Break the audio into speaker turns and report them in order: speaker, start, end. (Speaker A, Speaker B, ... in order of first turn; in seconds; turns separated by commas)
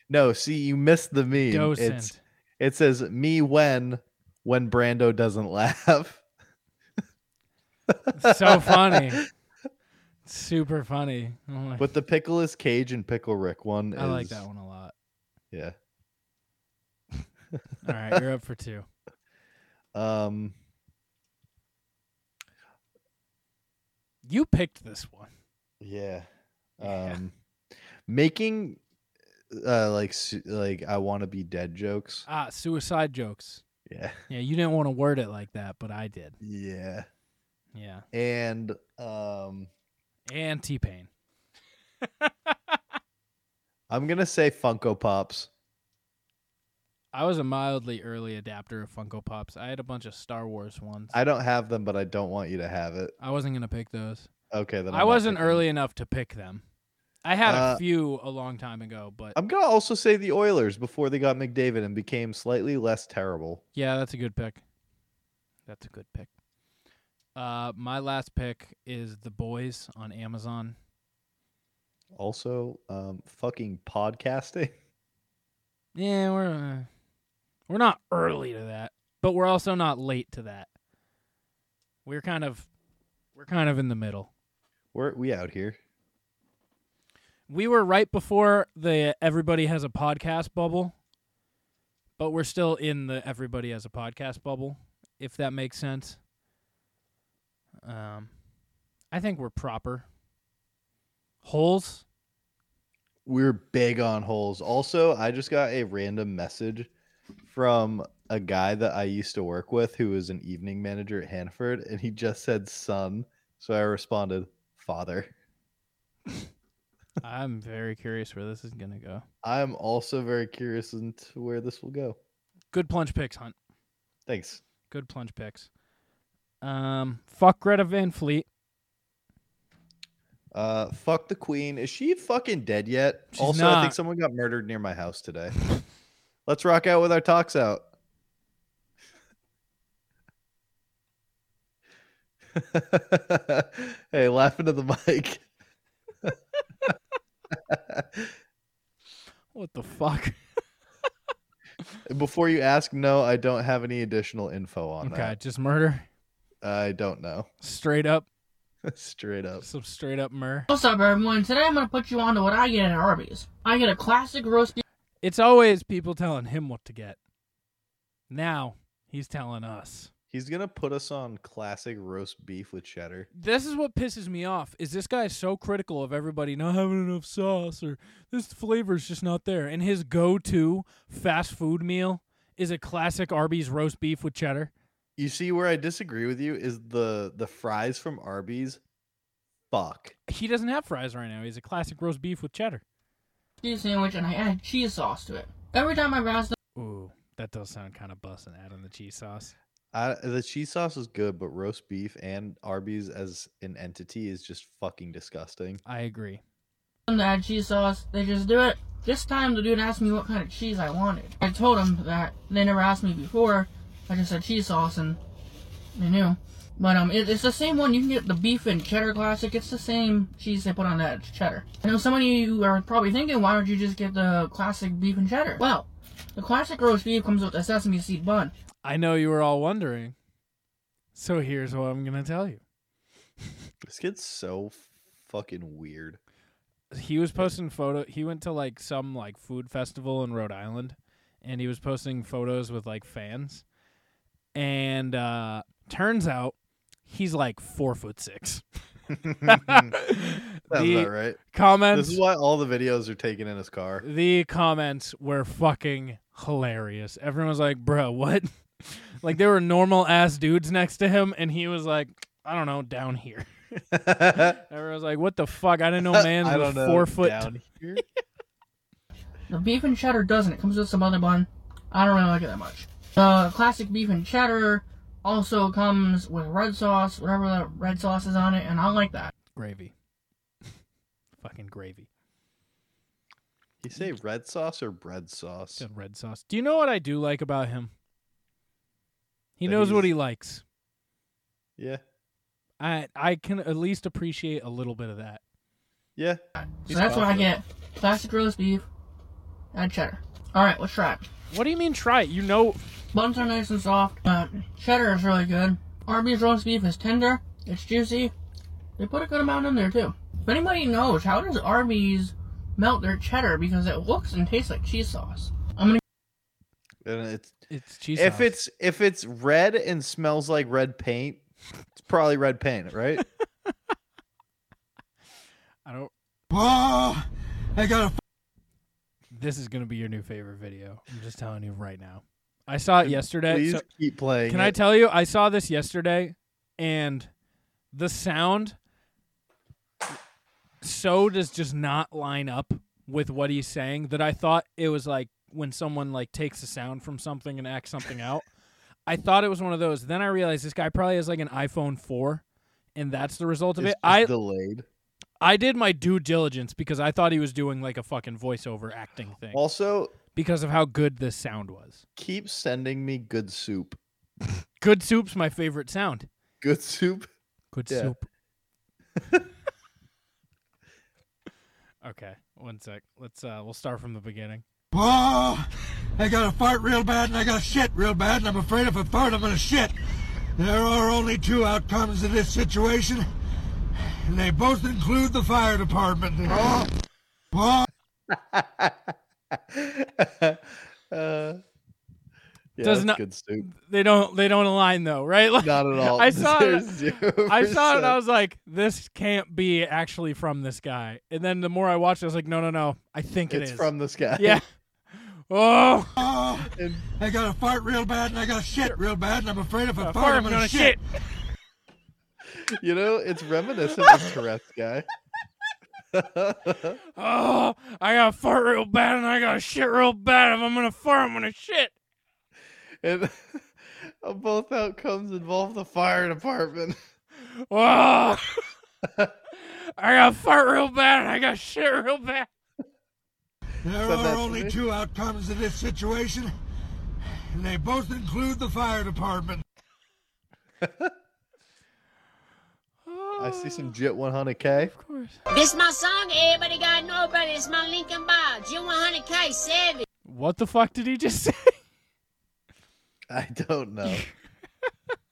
Speaker A: 0.1-6.2, Speaker B: 1.3-2.2, Speaker A: 7.9-9.2, Speaker B: 8.2-9.2, Speaker B: 10.2-11.9, Speaker A: 11.8-14.4, Speaker B: 14.0-14.9, Speaker B: 17.8-18.9, Speaker A: 19.9-20.5, Speaker B: 24.2-25.3, Speaker A: 25.8-26.3, Speaker A: 26.8-27.3, Speaker B: 26.8-27.2, Speaker A: 28.1-28.8, Speaker A: 29.5-32.2, Speaker B: 32.3-33.6, Speaker A: 33.9-34.2, Speaker B: 34.3-36.4, Speaker A: 36.4-37.1, Speaker B: 37.7-38.0, Speaker A: 38.1-39.7, Speaker B: 40.3-41.1, Speaker B: 42.2-42.7, Speaker A: 43.9-45.5, Speaker B: 47.1-51.2, Speaker A: 51.1-53.1, Speaker B: 53.2-54.3, Speaker A: 54.5-55.6, Speaker B: 54.9-56.6, Speaker B: 57.2-59.4, Speaker A: 57.5-57.8, Speaker A: 59.3-63.6, Speaker B: 63.7-64.6, Speaker B: 65.7-66.3, Speaker B: 67.3-70.8, Speaker A: 72.1-74.7, Speaker B: 75.9-76.9, Speaker B: 77.7-80.7, Speaker B: 82.0-82.7, Speaker B: 83.3-84.3, Speaker A: 84.9-85.8, Speaker B: 87.5-90.9, Speaker B: 92.2-96.2, Speaker B: 97.8-98.3, Speaker B: 99.1-100.0, Speaker B: 101.4-102.0, Speaker A: 103.2-106.9, Speaker A: 107.4-115.3, Speaker B: 117.2-119.2, Speaker A: 119.4-122.2, Speaker B: 122.7-123.5, Speaker A: 124.3-124.6, Speaker B: 124.9-125.7, Speaker B: 126.6-128.4, Speaker A: 130.5-135.5, Speaker B: 133.3-133.9, Speaker A: 136.4-137.9, Speaker A: 142.5-145.4, Speaker A: 147.5-148.3, Speaker B: 149.5-150.3, Speaker A: 152.1-155.3, Speaker B: 155.0-156.1, Speaker A: 156.6-157.5, Speaker B: 157.6-158.3, Speaker A: 158.8-159.6, Speaker B: 159.6-160.7, Speaker C: 160.7-164.8, Speaker B: 165.2-167.2, Speaker B: 168.3-170.1, Speaker A: 170.3-173.3, Speaker B: 173.3-184.7, Speaker A: 185.2-188.8, Speaker A: 189.7-190.1, Speaker B: 190.3-192.8, Speaker C: 193.6-196.6, Speaker B: 196.8-199.5, Speaker A: 199.9-205.8, Speaker B: 205.8-206.4, Speaker C: 207.1-215.2, Speaker C: 215.9-228.5, Speaker B: 228.8-230.1, Speaker B: 231.1-232.6, Speaker A: 233.8-236.2, Speaker B: 236.9-243.6, Speaker B: 244.5-246.5, Speaker B: 247.1-248.6, Speaker A: 249.1-250.0, Speaker B: 249.5-252.2, Speaker A: 250.7-251.4, Speaker A: 251.9-254.0, Speaker B: 254.0-263.5, Speaker A: 263.9-264.6, Speaker B: 264.4-267.5, Speaker A: 266.0-268.0, Speaker C: 269.5-279.3, Speaker B: 279.4-279.9, Speaker B: 281.4-282.1, Speaker A: 283.8-285.9, Speaker B: 285.8-287.9, Speaker B: 289.6-290.6, Speaker A: 289.6-290.1, Speaker B: 292.8-295.4, Speaker A: 296.1-297.5, Speaker C: 296.9-298.8, Speaker C: 299.7-301.2, Speaker B: 301.5-302.9, Speaker C: 303.1-308.3, Speaker C: 309.0-316.0, Speaker A: 317.0-317.5, Speaker B: 317.7-318.6, Speaker A: 318.1-321.4, Speaker A: 321.9-323.2, Speaker B: 325.9-326.1, Speaker D: 326.5-328.2, Speaker B: 329.3-333.8, Speaker A: 333.0-334.8, Speaker B: 334.5-337.3, Speaker B: 337.9-338.8, Speaker B: 340.8-348.4, Speaker B: 349.1-352.4, Speaker B: 352.9-354.3, Speaker A: 353.8-354.8, Speaker B: 355.4-359.6, Speaker A: 359.5-360.1, Speaker B: 360.3-362.0, Speaker A: 362.2-364.0, Speaker B: 364.8-366.3, Speaker A: 366.6-367.3, Speaker B: 367.7-368.3, Speaker A: 367.9-368.1, Speaker B: 372.0-374.6, Speaker D: 374.9-375.7, Speaker D: 376.2-379.9, Speaker D: 380.6-383.2, Speaker D: 383.9-386.8, Speaker D: 387.5-387.9, Speaker A: 388.3-391.6, Speaker A: 392.8-393.7, Speaker B: 392.8-406.2, Speaker A: 395.6-398.2, Speaker A: 403.5-404.6, Speaker D: 406.2-411.0, Speaker A: 406.7-407.0, Speaker B: 410.0-411.0, Speaker A: 412.5-415.1, Speaker A: 416.1-417.0, Speaker B: 417.1-421.9, Speaker A: 423.0-427.0, Speaker B: 427.5-428.5, Speaker A: 429.0-429.3, Speaker B: 429.6-432.5, Speaker D: 433.8-436.5, Speaker A: 434.0-434.8, Speaker D: 437.5-439.6, Speaker A: 440.8-441.1, Speaker B: 443.1-443.9, Speaker A: 443.4-444.9, Speaker B: 444.8-445.4, Speaker E: 445.5-450.1, Speaker B: 450.2-451.8, Speaker A: 453.3-454.2, Speaker B: 454.0-454.3